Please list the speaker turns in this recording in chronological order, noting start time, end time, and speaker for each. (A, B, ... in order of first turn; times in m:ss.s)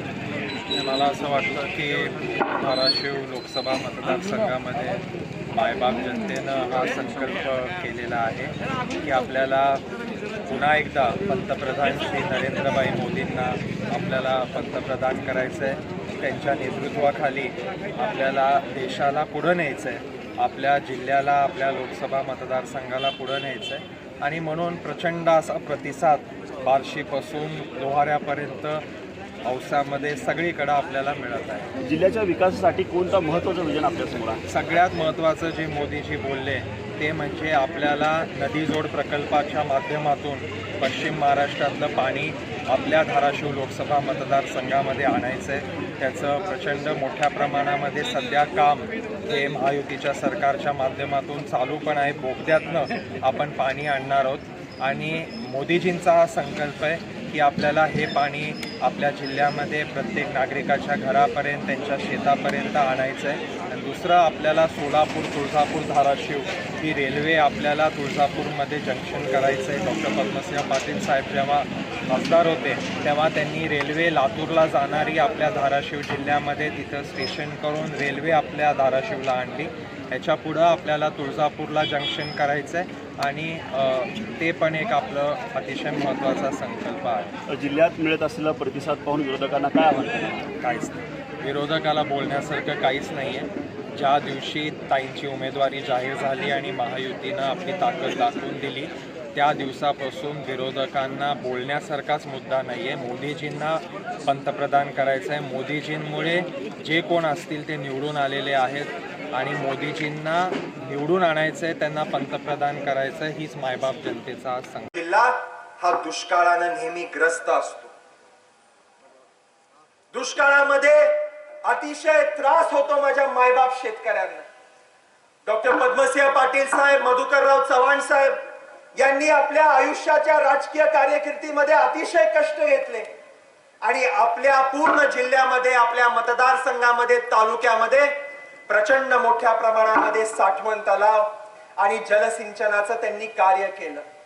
0:00.7-0:09.8 A
0:10.4-0:28.8 A
0:29.4-0:31.7 A
0:31.8-0:34.4 B
0:34.5-1:27.3 A
1:27.5-1:30.4 B
1:30.6-1:54.9 A
1:54.9-1:57.9 C
2:00.1-2:04.4 C
2:05.4-2:08.4 C
2:09.0-2:13.1 C
2:13.8-2:24.0 C